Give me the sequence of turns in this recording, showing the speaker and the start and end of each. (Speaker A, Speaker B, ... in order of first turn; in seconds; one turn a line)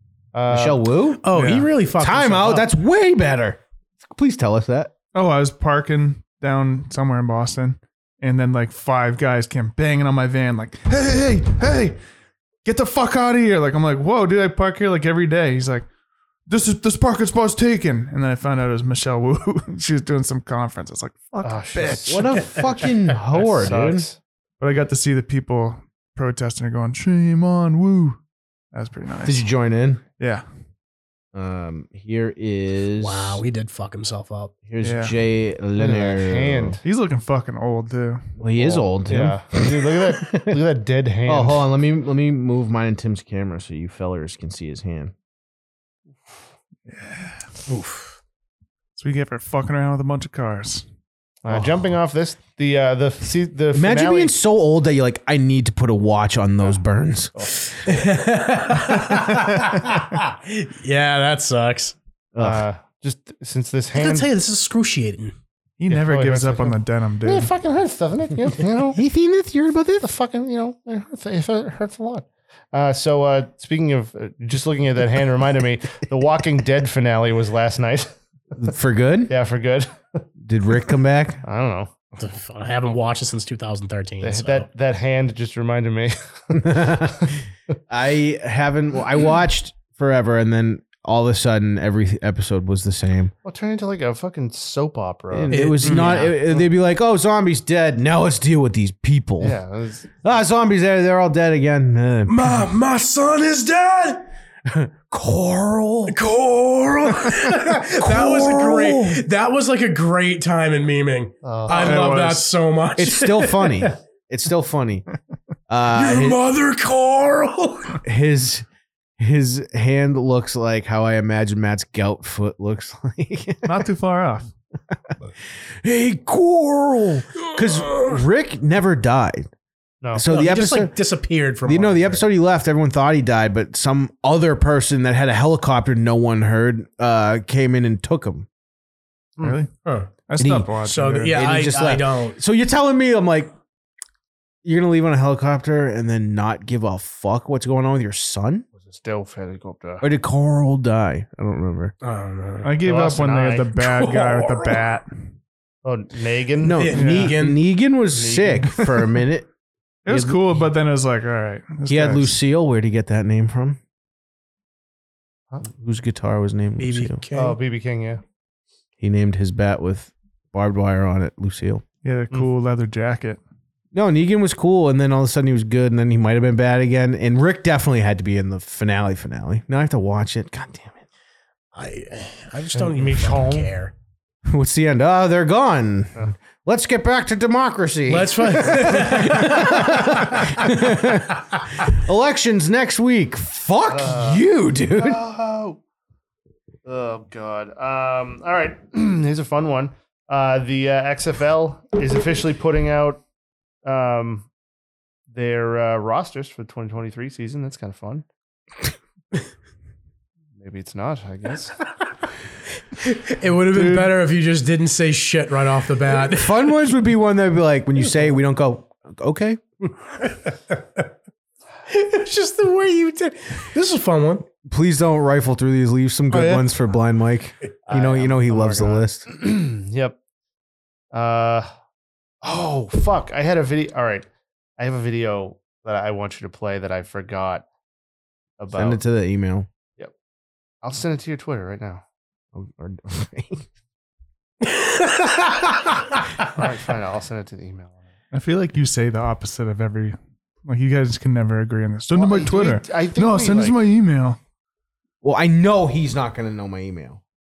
Speaker A: 0.3-0.8
Speaker B: 0.5-1.2
Speaker C: 1.2-2.6
Speaker D: 1.3-1.7
Speaker B: 2.0-4.9
Speaker D: 5.1-11.9
Speaker D: 12.6-15.8
Speaker D: 16.5-22.4
Speaker A: 21.4-24.2
Speaker B: 22.0-24.1
Speaker D: 24.6-28.2
Speaker D: 28.7-29.4
Speaker B: 29.2-30.0
Speaker D: 30.2-30.4
Speaker B: 31.3-33.4
Speaker C: 33.0-34.5
Speaker B: 34.7-36.8
Speaker D: 34.8-35.1
Speaker A: 35.8-36.8
Speaker D: 36.8-38.3
Speaker B: 38.4-40.6
Speaker A: 38.6-41.6
Speaker B: 41.2-45.1
Speaker D: 46.9-47.4
Speaker C: 47.7-48.1
Speaker D: 49.0-50.8
Speaker A: 51.4-54.3
Speaker B: 53.7-57.5
Speaker A: 57.4-57.6
Speaker C: 57.9-61.9
Speaker B: 62.3-62.6
Speaker A: 62.4-64.3
Speaker C: 64.0-65.3
Speaker D: 65.8-67.5
Speaker A: 65.9-69.0
Speaker B: 68.9-70.1
Speaker A: 70.0-78.1
Speaker B: 78.6-79.4
Speaker A: 79.3-80.2
Speaker B: 80.4-81.4
Speaker A: 81.4-81.9
Speaker C: 82.2-84.7
Speaker A: 84.2-87.3
Speaker B: 86.5-87.4
Speaker B: 87.9-93.3
Speaker A: 93.4-96.7
Speaker B: 95.3-99.6
Speaker C: 95.5-96.4
Speaker A: 99.4-100.2
Speaker B: 100.2-102.7
Speaker C: 102.3-104.2
Speaker B: 104.6-106.2
Speaker C: 106.1-113.9
Speaker B: 107.2-109.2
Speaker A: 111.4-112.1
Speaker D: 111.7-112.5
Speaker B: 113.0-115.0
Speaker B: 115.7-116.4
Speaker C: 115.8-118.0
Speaker B: 118.0-118.7
Speaker B: 119.2-123.8
Speaker D: 123.6-124.5
Speaker B: 125.8-129.5
Speaker A: 130.0-130.5
Speaker B: 130.1-130.9
Speaker C: 130.3-132.2
Speaker B: 131.7-138.5
Speaker D: 139.4-139.7
Speaker C: 139.8-140.1
Speaker D: 140.2-141.4
Speaker B: 140.4-140.7
Speaker C: 140.8-142.4
Speaker B: 141.3-143.5
Speaker B: 144.6-148.6
Speaker A: 148.8-150.1
Speaker B: 150.0-151.9
Speaker C: 152.0-152.8
Speaker D: 152.6-155.1
Speaker A: 152.8-153.7
Speaker C: 153.8-154.8
Speaker A: 155.8-156.9
Speaker B: 156.6-159.5
Speaker C: 156.7-157.6
Speaker D: 156.9-157.4
Speaker A: 158.1-158.8
Speaker D: 160.1-162.3
Speaker B: 160.1-160.6
Speaker B: 161.9-163.8
Speaker B: 165.7-167.2
Speaker C: 166.8-167.6
Speaker A: 167.3-168.2
Speaker B: 169.0-171.8
Speaker D: 172.0-173.4
Speaker B: 173.9-181.0
Speaker C: 181.7-183.9
Speaker A: 182.7-183.7
Speaker B: 184.4-195.2
Speaker C: 188.1-190.7
Speaker A: 193.8-195.8
Speaker A: 196.8-203.2
Speaker A: 203.8-204.5
Speaker A: 205.3-208.2
Speaker A: 210.6-211.8
Speaker C: 213.0-216.7
Speaker B: 213.7-214.1
Speaker B: 216.2-219.6
Speaker C: 220.2-221.0
Speaker C: 221.9-224.4
Speaker B: 224.6-229.2
Speaker A: 227.9-230.2
Speaker A: 231.1-231.7
Speaker A: 232.4-234.3
Speaker A: 234.8-237.7
Speaker A: 238.6-239.0
Speaker B: 238.7-239.7
Speaker A: 240.8-242.0
Speaker B: 242.5-243.7
Speaker C: 244.6-246.2
Speaker A: 246.5-248.0
Speaker D: 248.3-254.4
Speaker A: 252.1-253.8
Speaker B: 255.2-257.2